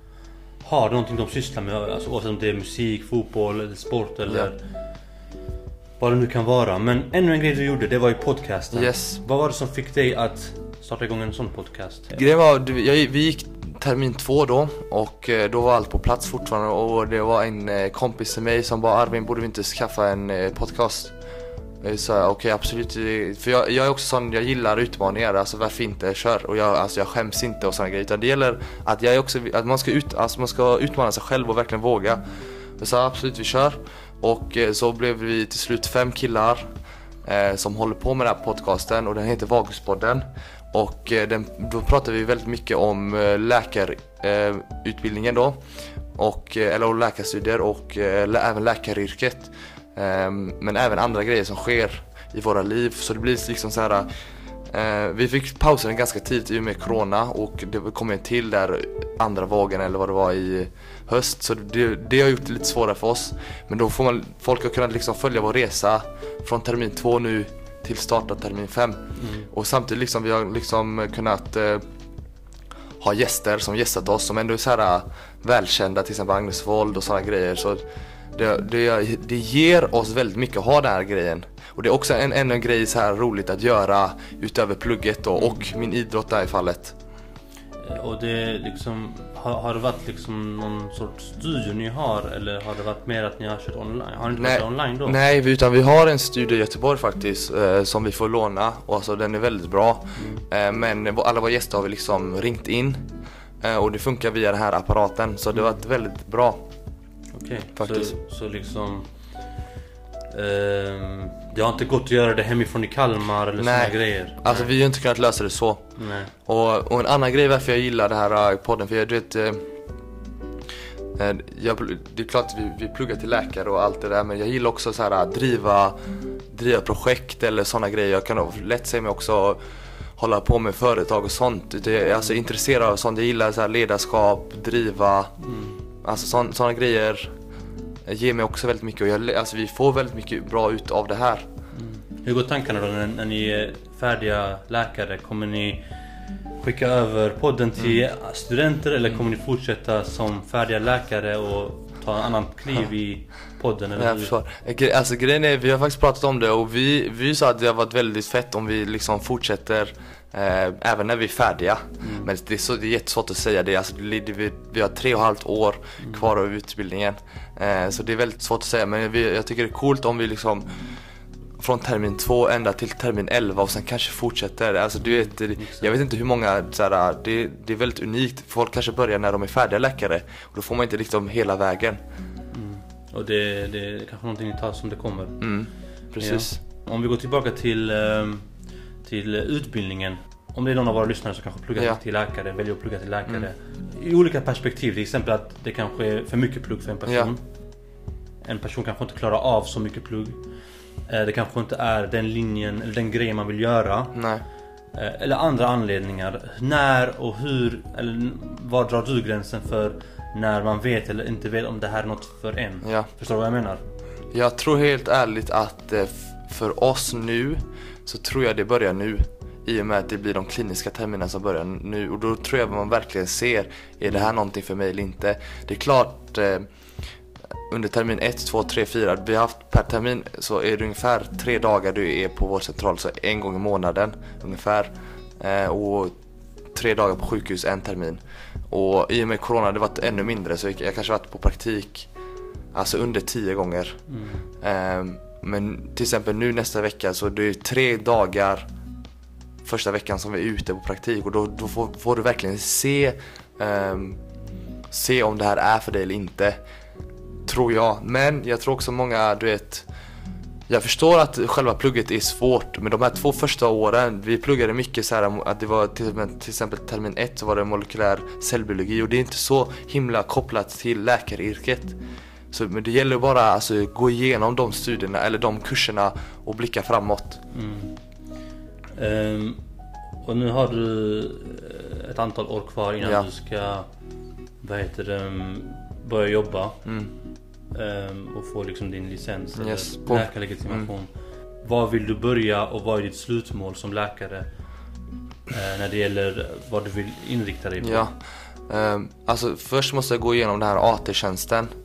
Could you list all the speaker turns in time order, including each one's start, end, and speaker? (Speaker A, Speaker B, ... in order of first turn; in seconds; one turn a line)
Speaker A: 0.6-4.6
Speaker A: 6.0-12.2
Speaker B: 8.7-9.2
Speaker B: 12.1-21.1
Speaker B: 21.8-32.2
Speaker B: 32.8-36.7
Speaker B: 37.2-45.6
Speaker B: 46.1-54.1
Speaker B: 54.7-71.8
Speaker A: 69.2-69.5
Speaker B: 73.0-77.8
Speaker B: 78.3-86.9
Speaker A: 87.8-95.2
Speaker B: 94.4-103.1
Speaker A: 100.2-100.4
Speaker B: 103.6-106.6
Speaker A: 107.3-109.1
Speaker B: 107.8-108.1
Speaker A: 110.3-114.7
Speaker B: 113.6-115.9
Speaker A: 116.0-116.3
Speaker B: 116.4-119.7
Speaker B: 121.1-126.0
Speaker B: 126.5-129.6
Speaker B: 130.2-135.3
Speaker A: 135.4-135.8
Speaker B: 136.0-137.3
Speaker B: 138.1-141.5
Speaker A: 141.7-145.8
Speaker A: 146.6-154.3
Speaker B: 154.0-170.7
Speaker A: 162.0-162.3
Speaker B: 171.6-182.0
Speaker A: 175.0-175.9
Speaker A: 182.5-185.4
Speaker B: 185.4-186.6
Speaker A: 186.2-188.5
Speaker A: 189.0-197.4
Speaker A: 198.4-200.4
Speaker A: 201.1-204.2
Speaker B: 204.1-204.4
Speaker A: 204.9-213.8
Speaker B: 214.3-226.7
Speaker B: 227.7-236.1
Speaker B: 236.7-242.1
Speaker B: 242.7-244.0
Speaker A: 244.1-244.4
Speaker B: 244.6-248.7
Speaker B: 249.6-254.2
Speaker B: 254.9-256.6
Speaker B: 257.4-259.9
Speaker B: 260.7-271.9
Speaker B: 272.5-277.4
Speaker A: 277.5-278.0
Speaker A: 278.9-279.6
Speaker A: 280.2-283.9
Speaker A: 284.6-286.8
Speaker B: 286.8-287.1
Speaker A: 287.7-291.1
Speaker B: 289.6-290.9
Speaker A: 291.6-294.4
Speaker A: 295.5-298.1
Speaker B: 297.8-298.1
Speaker B: 298.7-301.7